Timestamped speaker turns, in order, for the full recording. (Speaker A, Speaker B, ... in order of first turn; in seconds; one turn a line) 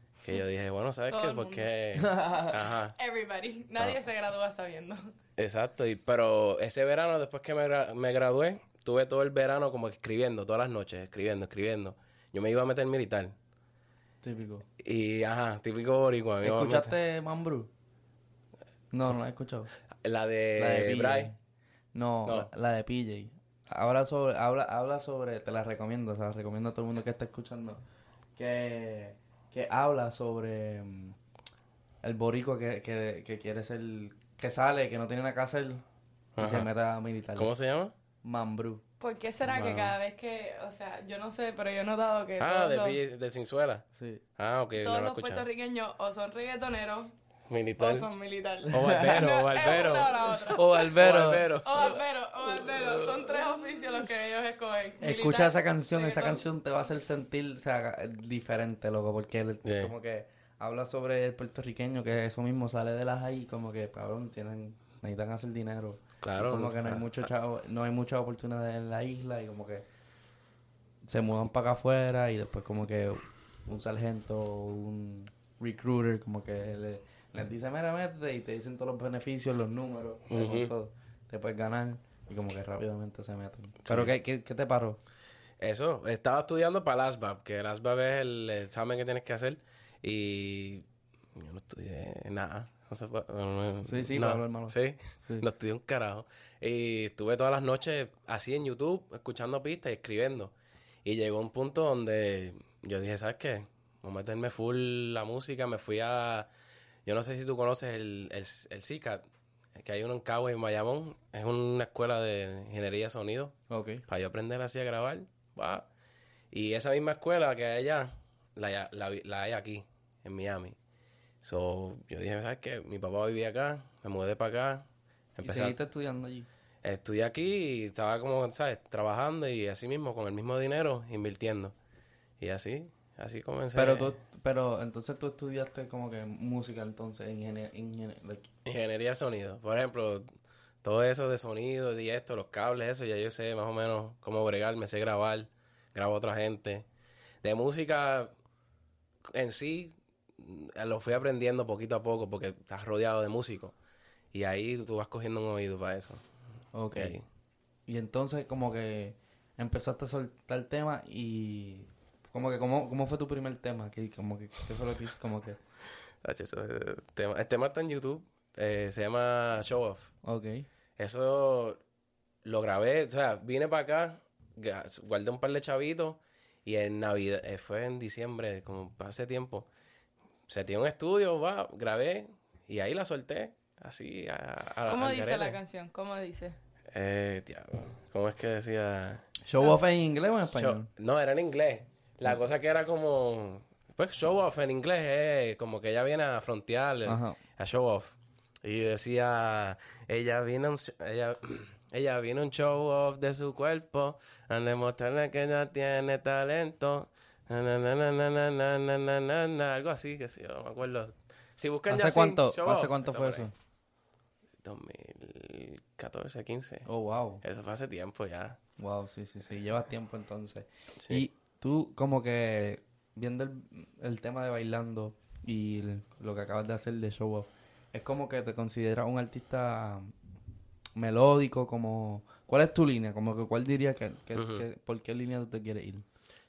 Speaker A: 0.2-2.9
Speaker B: 1.1-1.7
Speaker C: 2.0-2.6
Speaker B: 3.0-5.1
Speaker A: 5.4-13.3
Speaker C: 14.2-14.7
Speaker A: 14.8-16.9
Speaker C: 16.4-17.7
Speaker C: 18.9-19.7
Speaker A: 20.0-21.3
Speaker C: 20.6-21.4
Speaker C: 21.9-27.8
Speaker C: 28.4-31.2
Speaker C: 32.0-35.8
Speaker A: 36.4-36.7
Speaker C: 36.4-37.5
Speaker A: 37.4-37.9
Speaker C: 38.2-38.8
Speaker B: 39.0-43.0
Speaker A: 39.5-40.0
Speaker A: 42.4-43.9
Speaker C: 44.0-44.2
Speaker A: 44.4-45.5
Speaker B: 44.8-47.1
Speaker A: 47.5-48.1
Speaker B: 47.8-50.8
Speaker C: 48.7-49.3
Speaker A: 48.7-52.0
Speaker C: 50.4-51.5
Speaker B: 51.6-56.4
Speaker C: 52.5-53.6
Speaker C: 55.0-69.9
Speaker A: 59.6-59.9
Speaker A: 66.2-67.2
Speaker C: 71.0-85.0
Speaker A: 80.3-80.7
Speaker A: 83.8-84.1
Speaker A: 85.6-100.5
Speaker C: 93.8-95.5
Speaker A: 101.0-106.5
Speaker A: 107.0-109.2
Speaker A: 109.8-113.6
Speaker C: 113.7-114.0
Speaker A: 114.1-115.9
Speaker A: 116.5-120.8
Speaker A: 121.4-125.8
Speaker C: 125.4-126.5
Speaker A: 126.8-131.7
Speaker A: 132.4-134.2
Speaker C: 133.7-138.5
Speaker A: 138.7-140.3
Speaker A: 140.8-146.9
Speaker A: 147.4-148.3
Speaker A: 149.3-153.8
Speaker A: 154.3-156.2
Speaker C: 156.7-157.2
Speaker A: 156.9-157.2
Speaker C: 157.9-165.6
Speaker A: 166.2-170.1
Speaker C: 170.2-170.7
Speaker A: 171.0-171.8
Speaker A: 172.4-179.7
Speaker A: 180.5-185.6
Speaker B: 184.9-186.6
Speaker A: 186.9-189.3
Speaker C: 189.4-190.9
Speaker A: 190.4-213.5
Speaker C: 197.1-197.4
Speaker C: 211.9-213.5
Speaker A: 214.6-216.9
Speaker C: 216.9-217.4
Speaker A: 217.4-218.6
Speaker C: 218.8-230.1
Speaker A: 221.0-221.2
Speaker C: 231.0-236.1
Speaker A: 234.3-234.7